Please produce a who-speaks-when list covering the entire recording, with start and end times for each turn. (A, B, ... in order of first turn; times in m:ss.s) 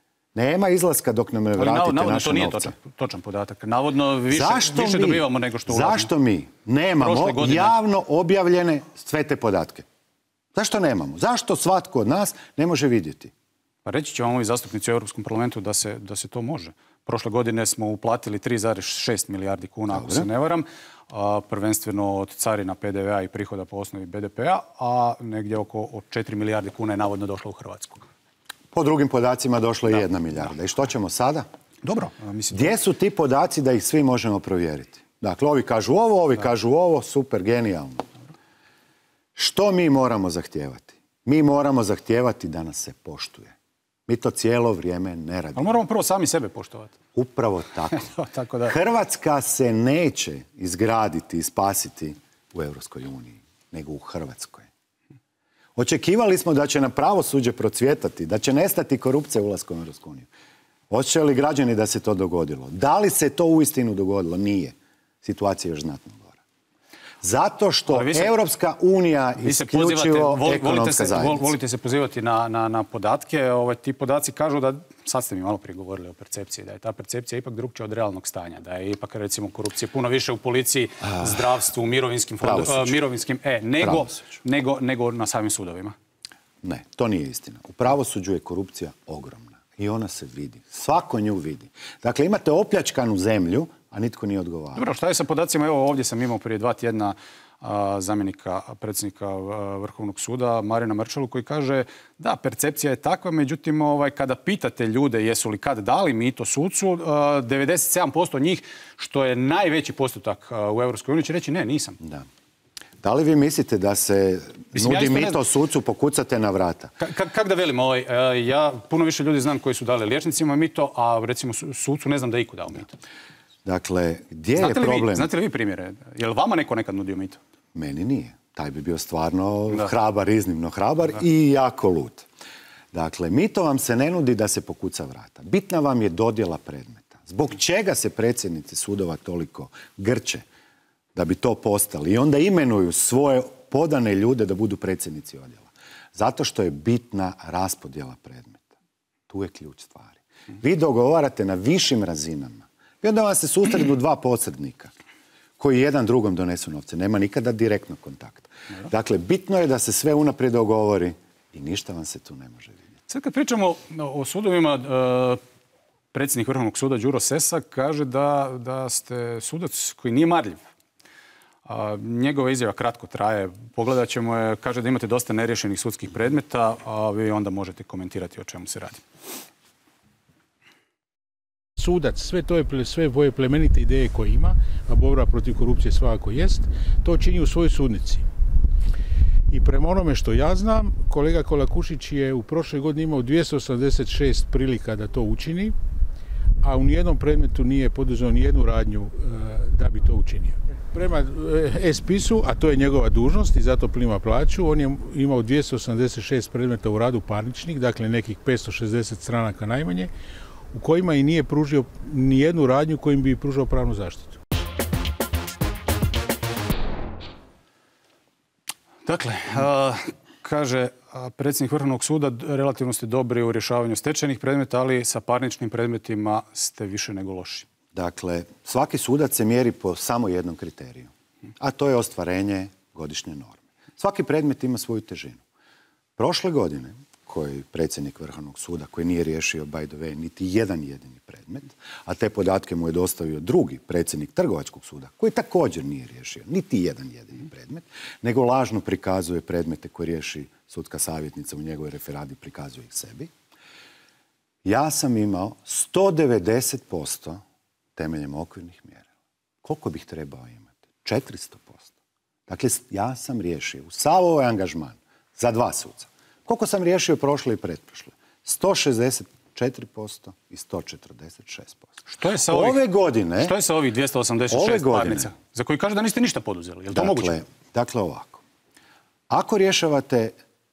0:00.4-0:02.8 A
0:01.6-0:06.1 B
0:04.3-0:09.9 A
0:07.0-0:07.8 B
0:10.5-0:13.3 A
0:13.8-0:28.0 B
0:19.9-0:20.3 A
0:28.7-0:31.5 A
0:31.8-0:32.7 B
0:32.5-0:38.1 A
0:39.4-0:43.6 A
0:44.1-0:45.8 A
0:45.6-0:47.0 B
0:47.2-0:48.1 A
0:47.9-0:48.7 B
0:48.7-0:54.7 A
0:55.8-1:00.3 A
1:00.9-1:06.4 A
1:07.2-1:11.5 A
1:07.9-1:08.3 B
1:09.4-1:26.0 B
1:22.4-1:23.0 A
1:23.8-1:24.2 A
1:26.6-1:34.9 A
1:34.8-1:52.0 B
1:52.0-1:52.3 A
1:53.0-1:56.9 A
1:54.7-1:55.4 B
1:57.0-2:02.9 B
2:03.6-2:05.3 A
2:04.6-2:07.4 B
2:07.7-2:12.3 A
2:12.9-2:20.4 A
2:21.2-2:28.7 A
2:29.3-2:34.9 A
2:35.6-2:42.8 A
2:43.1-2:45.4 B
2:46.1-2:50.6 B
2:51.7-2:59.0 B
3:01.8-3:08.3 C
3:09.5-3:15.8 C
3:16.6-3:30.1 C
3:30.7-3:34.4 C
3:39.1-3:47.7 B
3:47.9-3:55.4 A
3:56.2-4:13.3 A
4:14.6-4:17.4 A
4:18.0-4:19.1 A
4:19.6-4:21.9 A
4:22.5-4:31.9 A
4:32.1-4:32.8 B
4:32.5-4:33.6 A
4:33.4-4:37.4 B
4:34.5-4:35.3 A
4:36.9-4:38.4 A
4:39.3-4:40.4 A